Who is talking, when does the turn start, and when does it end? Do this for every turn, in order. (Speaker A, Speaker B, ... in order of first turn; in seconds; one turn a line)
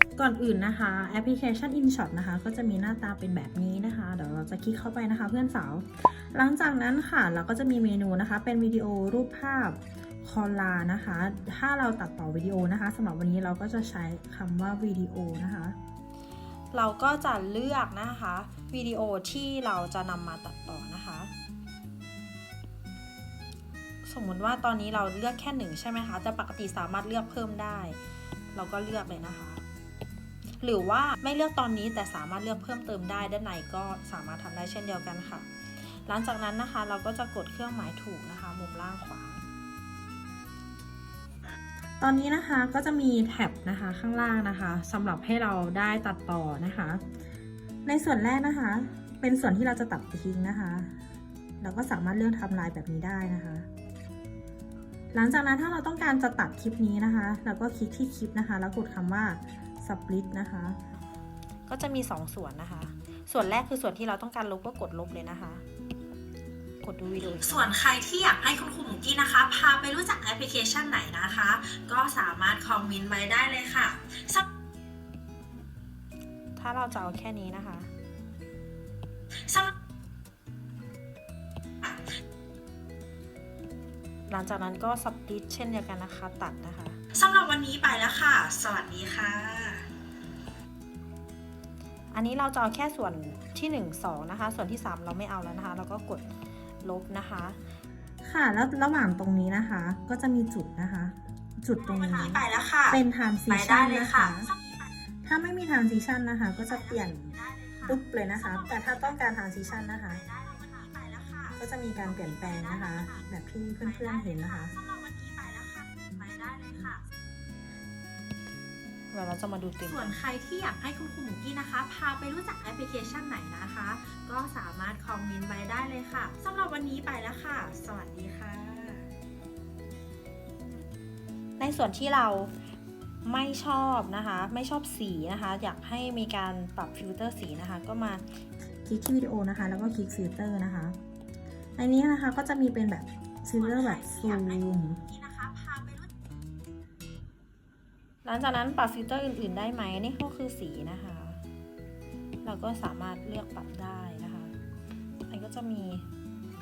Speaker A: 0.2-15.8
Speaker A: 16.7-21.3
Speaker A: 24.0-28.0
Speaker A: 28.5-29.6
Speaker A: 30.6-35.5
Speaker A: 36.0-39.4
Speaker A: 42.0-47.0
Speaker A: 47.9-50.9
Speaker A: 51.6-53.7
Speaker A: 55.1-60.8
Speaker A: 61.7-65.6
Speaker A: 66.8-67.7
Speaker B: 67.4-74.4
Speaker A: 76.6-77.9
Speaker B: 79.4-79.7
Speaker A: 84.3-87.0
Speaker B: 87.1-89.9
Speaker A: 92.1-96.3
Speaker A: 96.8-97.6
Speaker A: 98.2-104.5
Speaker B: 101.8-103.0
Speaker B: 103.5-104.9
Speaker A: 105.2-107.3
Speaker B: 106.5-109.2
Speaker A: 107.9-110.2
Speaker B: 109.7-113.2
Speaker A: 111.5-114.7
Speaker B: 113.8-117.0
Speaker A: 119.1-120.2
Speaker B: 119.8-129.1
Speaker A: 131.6-132.5
Speaker A: 133.2-138.2
Speaker A: 138.8-141.0
Speaker A: 141.8-145.0
Speaker B: 143.6-146.1
Speaker A: 148.2-151.4
Speaker A: 152.4-154.5
Speaker A: 155.3-156.1